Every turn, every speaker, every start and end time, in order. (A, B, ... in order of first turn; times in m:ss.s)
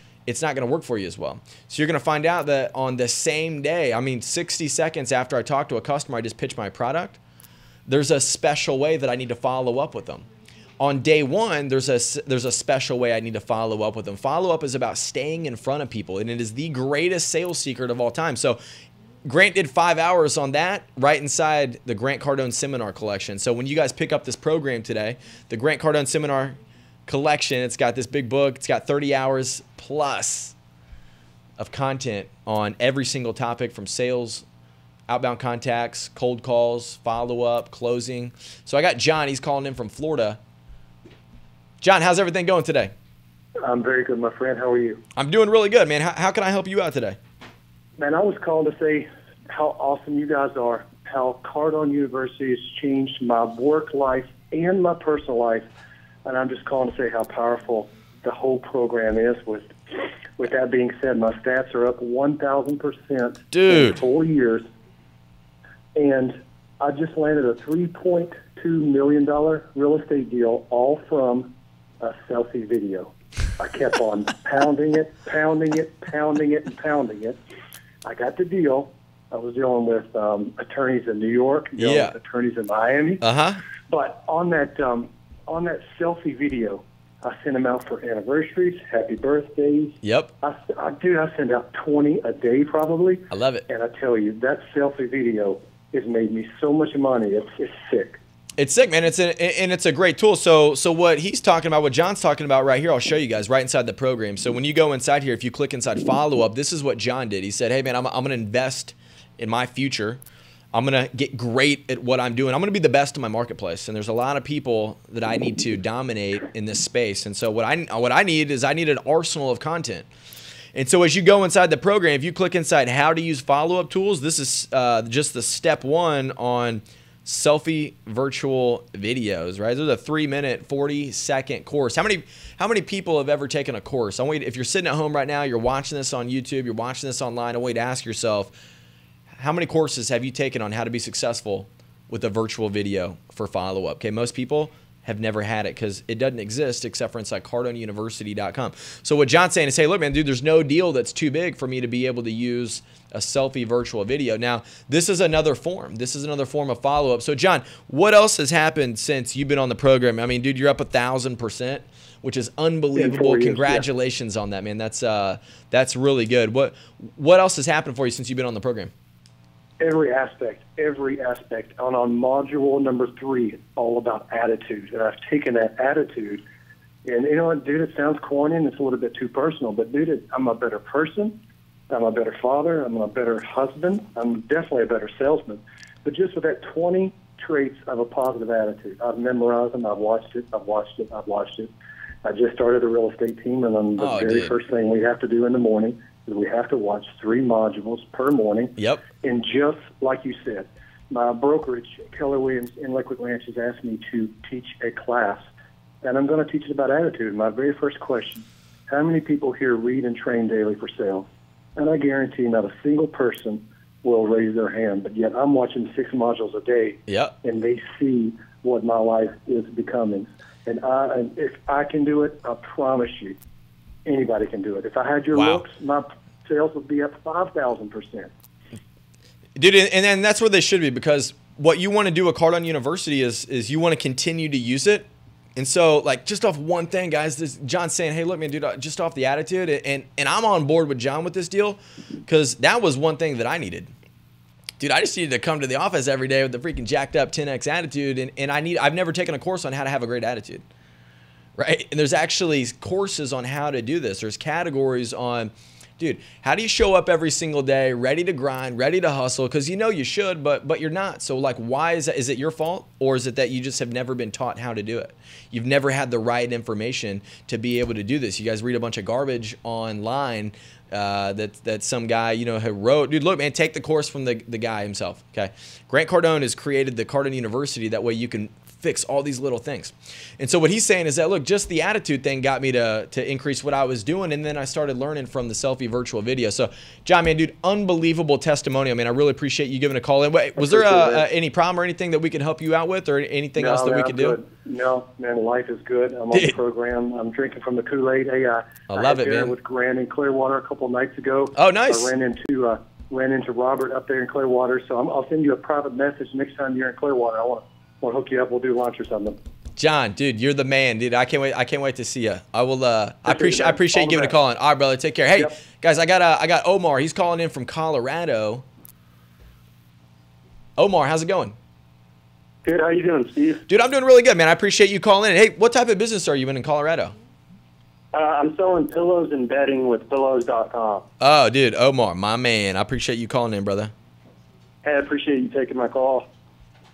0:00.3-0:07.2 A
0:07.9-0:10.3 A
0:10.8-0:18.6 A
0:19.2-0:30.6 A
0:31.6-0:34.4 A
0:35.1-0:40.4 A
0:41.8-0:42.9 A
0:43.6-0:45.0 B
0:45.2-0:47.2 A
0:48.0-0:55.7 B
0:56.2-1:04.7 B
1:03.5-1:04.0 A
1:06.0-1:17.4 B
1:18.0-1:23.2 B
1:21.8-1:22.2 A
1:23.2-1:23.6 A
1:23.9-1:38.2 B
1:30.0-1:30.3 A
1:33.3-1:33.6 A
1:38.6-1:50.2 A
1:50.7-2:00.1 A
2:00.8-2:18.5 A
2:19.4-2:48.9 A
2:43.0-2:43.8 B
2:49.8-2:56.4 B
2:57.0-3:01.4 B
3:01.9-3:11.7 B
3:12.2-3:25.4 B
3:14.0-3:14.6 A
3:18.8-3:19.0 A
3:26.0-3:43.4 B
3:37.1-3:37.4 A
3:44.1-3:48.3 B
3:45.3-3:45.6 A
3:49.6-4:03.9 A
4:04.8-4:10.6 A
4:11.6-4:54.4 A
4:53.6-5:09.4 B
4:58.9-4:59.5 A
5:01.6-5:02.1 A
5:09.8-5:18.6 A
5:13.3-5:14.4 C
5:20.8-5:21.6 A
5:22.6-5:23.6 C
5:23.7-5:27.2 A
5:28.1-5:31.0 C
5:31.2-5:33.9 A
5:34.8-5:36.3 C